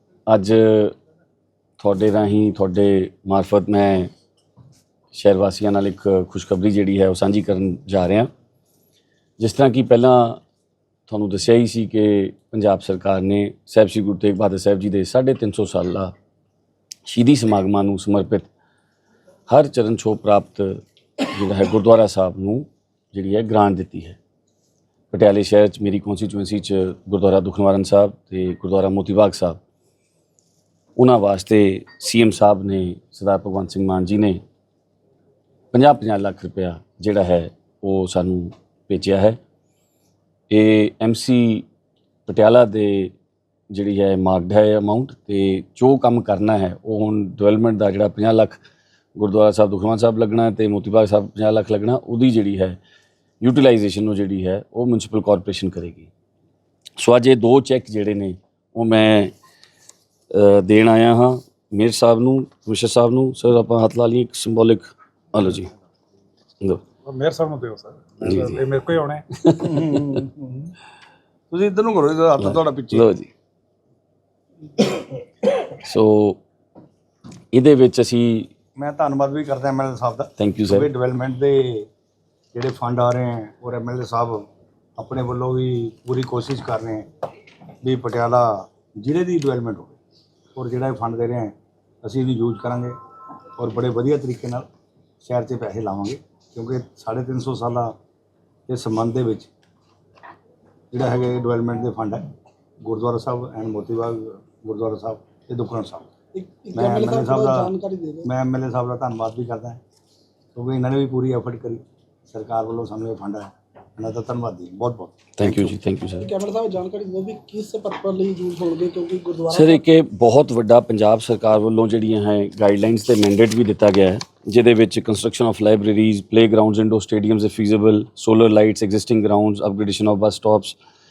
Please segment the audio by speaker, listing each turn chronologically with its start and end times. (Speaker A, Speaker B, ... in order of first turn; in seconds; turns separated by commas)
Speaker A: 0.3-0.9, Speaker A: 1.8-4.1, Speaker A: 5.1-8.3, Speaker A: 9.4-10.4, Speaker A: 11.1-16.1, Speaker A: 17.1-18.5, Speaker A: 19.5-24.2, Speaker A: 25.1-29.6, Speaker A: 31.0-34.4, Speaker A: 35.7-39.4, Speaker A: 40.5-41.7, Speaker A: 42.3-43.1, Speaker A: 43.7-48.6, Speaker A: 49.2-52.8, Speaker A: 53.4-56.1, Speaker A: 57.0-59.3, Speaker A: 60.3-65.7, Speaker B: 67.0-69.5, Speaker A: 68.2-68.6, Speaker A: 69.4-70.0, Speaker C: 69.6-70.7, Speaker C: 71.5-73.1, Speaker A: 72.4-73.3, Speaker A: 75.8-76.4, Speaker A: 77.5-78.5, Speaker C: 78.8-81.9, Speaker A: 80.4-80.9, Speaker C: 82.5-84.5, Speaker C: 85.0-87.1, Speaker C: 87.8-90.0, Speaker C: 90.5-93.0, Speaker C: 93.6-94.7, Speaker C: 95.2-98.0, Speaker C: 98.7-99.5, Speaker C: 100.9-102.3, Speaker C: 102.8-106.1, Speaker D: 106.3-108.3, Speaker C: 106.7-107.7, Speaker C: 108.2-109.8, Speaker C: 110.5-115.2, Speaker A: 115.4-116.3, Speaker D: 115.5-119.8, Speaker A: 119.5-130.8